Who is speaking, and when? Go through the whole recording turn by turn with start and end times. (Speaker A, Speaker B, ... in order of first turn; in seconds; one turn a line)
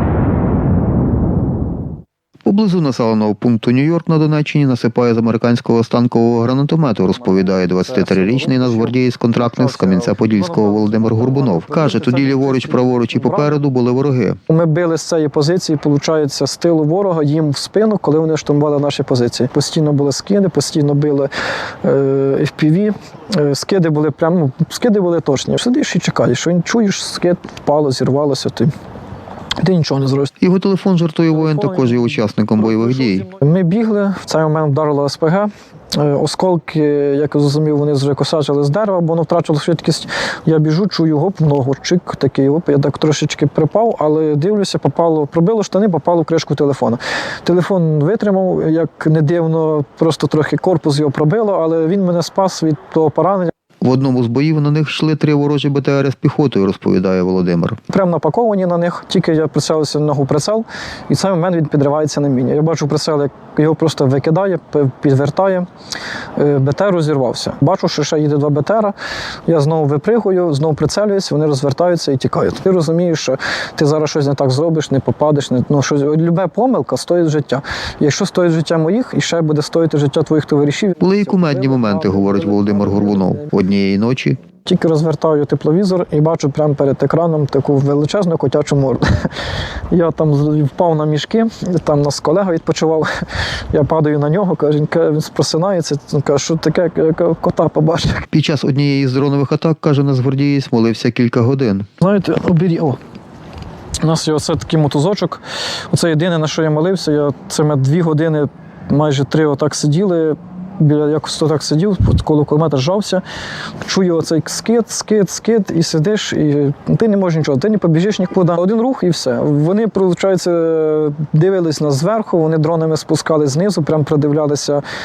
Speaker A: 2.4-14.4
Speaker B: 7.1-13.6
Speaker B: 14.5-21.3
Speaker B: 21.8-28.7
Speaker B: 29.6-30.3
Speaker A: 30.4-33.3
Speaker B: 31.3-53.5
Speaker A: 53.8-57.8
Speaker B: 57.9-65.6
Speaker B: 66.4-68.9
Speaker B: 69.5-83.5
Speaker A: 81.0-84.4
Speaker B: 84.7-89.2
Speaker B: 89.9-93.1
Speaker B: 93.7-98.2
Speaker A: 98.3-101.8
Speaker B: 102.0-103.0
Speaker B: 104.0-113.2
Speaker B: 113.8-124.8